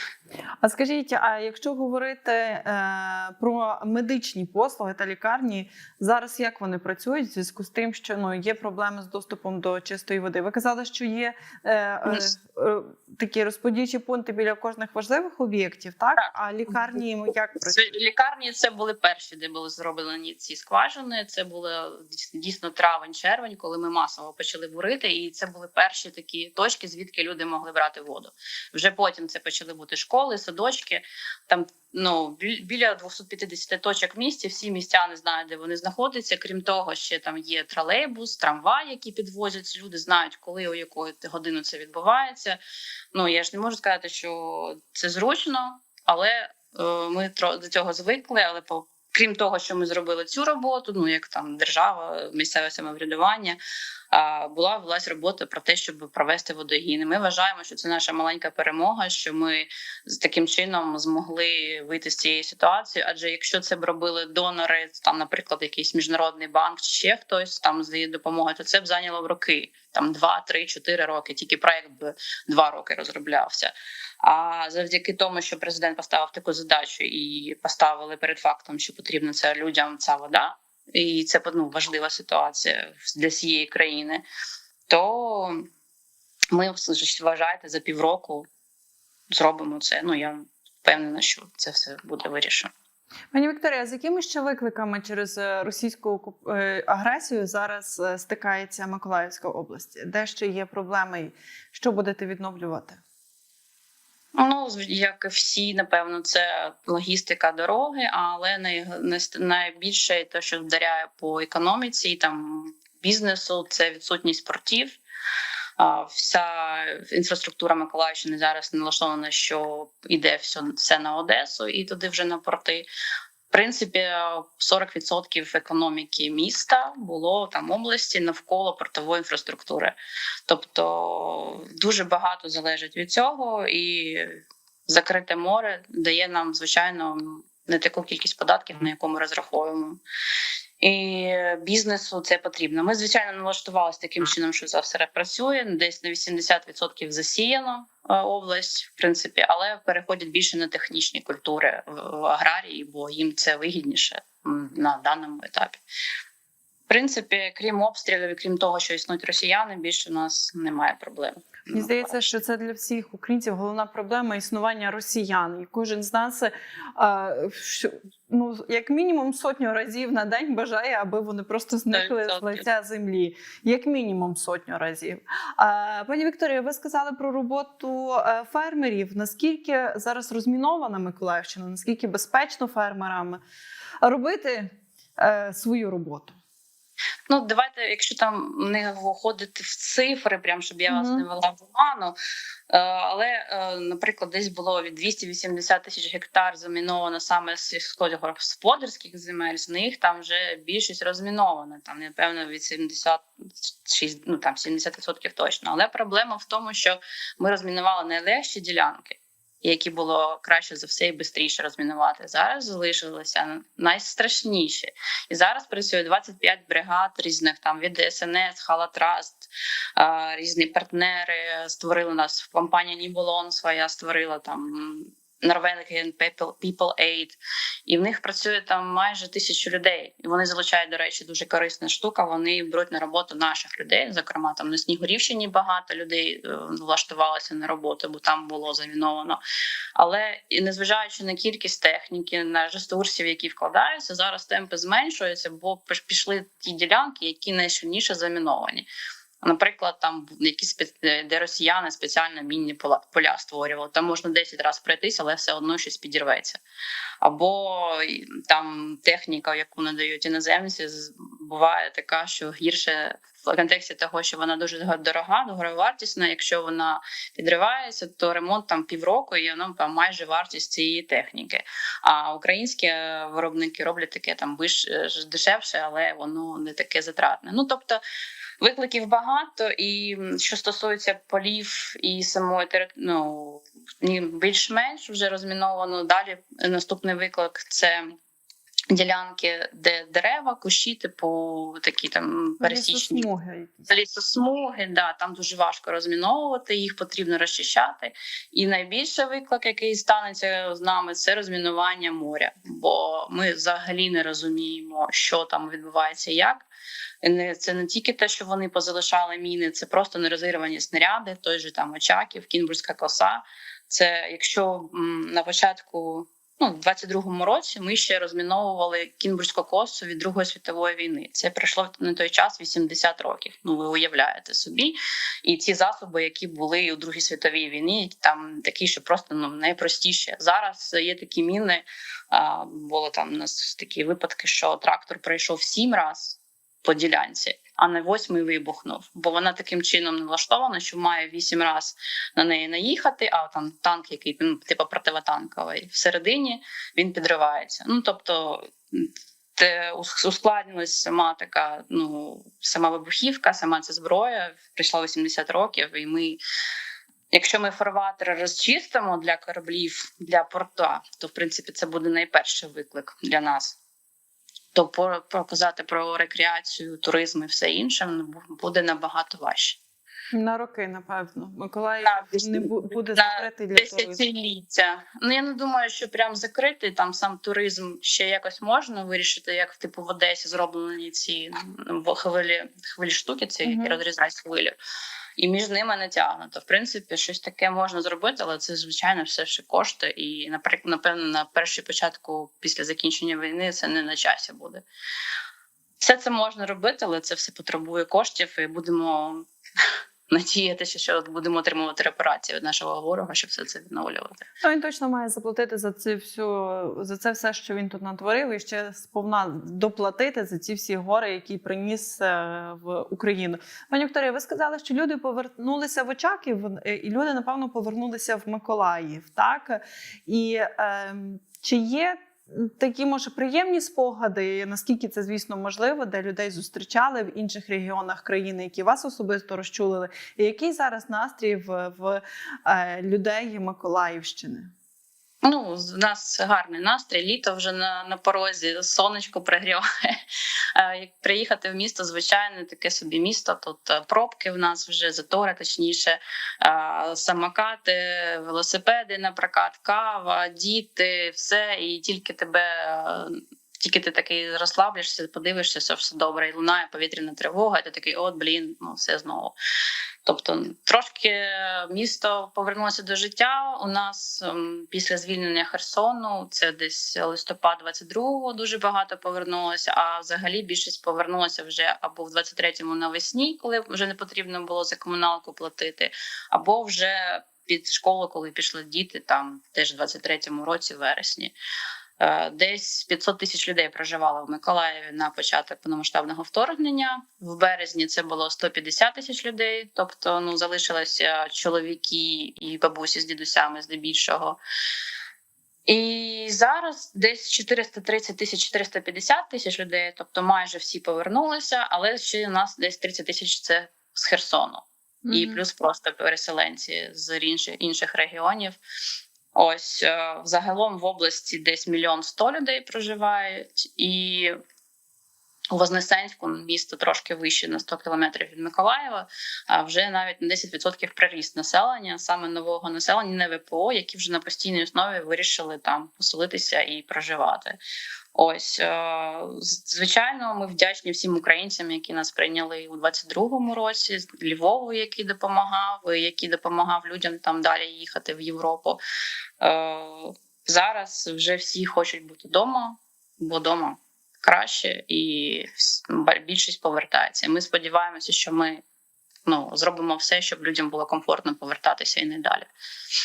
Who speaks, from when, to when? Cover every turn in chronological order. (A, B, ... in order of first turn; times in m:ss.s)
0:00.6-0:17.8 A
0:16.2-0:17.0 B
0:17.6-0:42.6 B
0:43.1-0:53.6 B
0:54.1-1:24.2 B
1:24.9-1:25.6 B
1:26.5-1:28.5 B
1:29.3-1:32.7 B
1:33.3-1:43.0 A
1:44.4-1:55.0 B
1:55.8-2:02.9 B
2:03.5-2:10.0 B
2:10.5-2:20.0 B
2:20.8-2:35.8 B
2:36.9-2:42.3 B
2:41.7-3:03.4 A
2:51.9-2:52.6 B
3:04.0-3:06.4 A
3:07.3-3:12.2 B
3:10.9-3:11.3 A
3:12.7-3:59.4 B
4:00.0-4:08.9 B
4:09.4-4:16.6 B
4:17.2-4:38.0 B
4:38.6-4:48.2 B
4:48.9-4:53.3 B
4:52.6-4:53.9 A
4:53.9-5:06.7 B
5:07.2-5:56.4 B
5:57.3-6:03.8 B
6:04.7-6:09.8 B
6:10.3-6:14.2 A
6:12.0-6:24.7 B
6:23.6-6:24.0 A
6:25.4-6:34.8 B
6:36.0-6:39.5 B
6:40.3-6:44.4 B
6:44.6-7:14.7 A
7:15.4-7:20.2 B
7:20.8-7:39.6 B
7:40.2-8:01.5 B
8:02.2-8:14.6 B
8:15.9-8:28.8 B
8:25.2-8:25.6 A
8:29.5-8:34.6 B
8:35.7-8:47.8 B
8:48.3-8:59.0 B
8:59.6-9:08.8 B
9:09.5-9:12.7 B